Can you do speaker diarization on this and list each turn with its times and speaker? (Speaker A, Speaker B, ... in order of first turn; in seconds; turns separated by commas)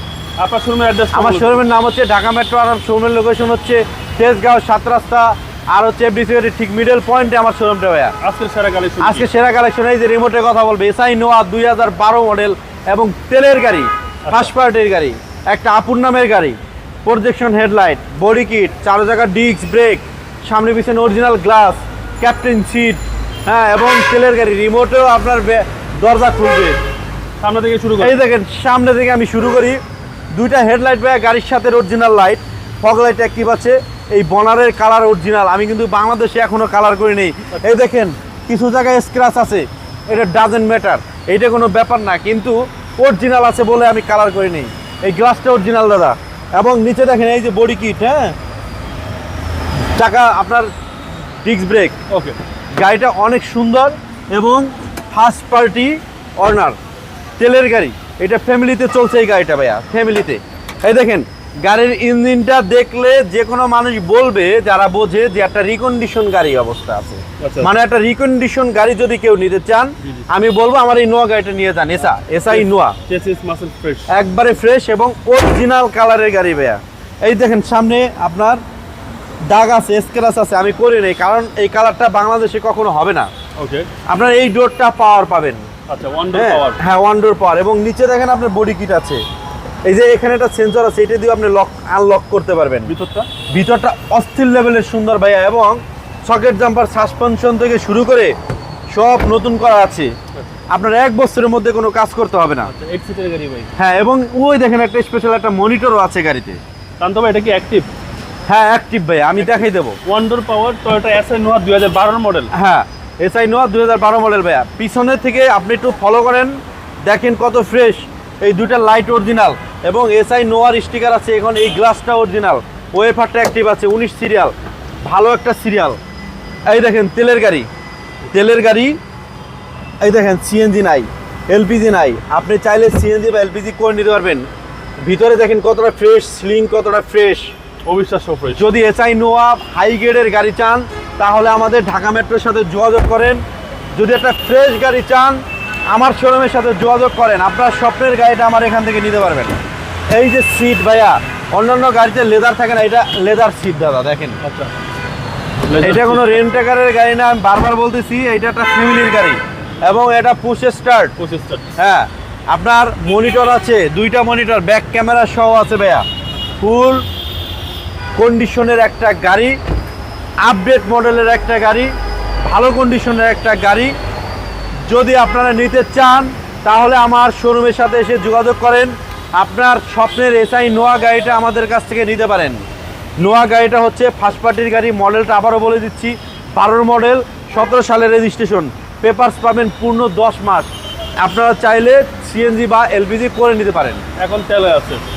Speaker A: 0.4-1.6, Speaker B: 1.1-8.2, Speaker A: 8.2-9.3, Speaker B: 9.0-26.8, Speaker A: 14.2-14.5, Speaker A: 27.4-28.2, Speaker B: 28.0-29.8, Speaker B: 30.3-48.4, Speaker B: 49.9-50.7, Speaker B: 51.4-52.0, Speaker A: 52.1-52.4, Speaker B: 52.8-56.8, Speaker B: 57.4-73.0, Speaker A: 67.4-67.7, Speaker A: 72.5-74.1, Speaker B: 74.1-78.6, Speaker B: 79.5-83.3, Speaker A: 83.6-83.9, Speaker B: 84.1-85.7, Speaker A: 85.9-86.8, Speaker B: 86.3-89.2, Speaker B: 89.8-92.9, Speaker A: 92.9-93.3, Speaker B: 93.5-98.3, Speaker B: 98.9-100.1, Speaker B: 100.7-102.7, Speaker A: 102.6-103.7, Speaker B: 103.8-106.6, Speaker A: 107.0-107.9, Speaker B: 108.5-110.0, Speaker A: 110.0-112.5, Speaker B: 112.5-124.5, Speaker B: 125.0-126.0, Speaker B: 126.7-127.7, Speaker B: 128.3-129.0, Speaker B: 130.0-134.5, Speaker B: 135.0-137.5, Speaker A: 137.8-138.7, Speaker B: 138.5-143.4, Speaker B: 143.9-145.4, Speaker B: 145.9-149.6, Speaker B: 150.1-154.4, Speaker A: 154.4-154.7, Speaker A: 155.7-156.3, Speaker B: 155.8-161.1, Speaker A: 161.2-161.7, Speaker B: 161.8-166.1, Speaker B: 166.6-167.0, Speaker B: 168.2-169.6, Speaker B: 170.4-171.9, Speaker B: 172.5-173.9, Speaker B: 174.9-182.6, Speaker B: 183.2-190.7, Speaker B: 191.2-194.0, Speaker A: 194.2-195.0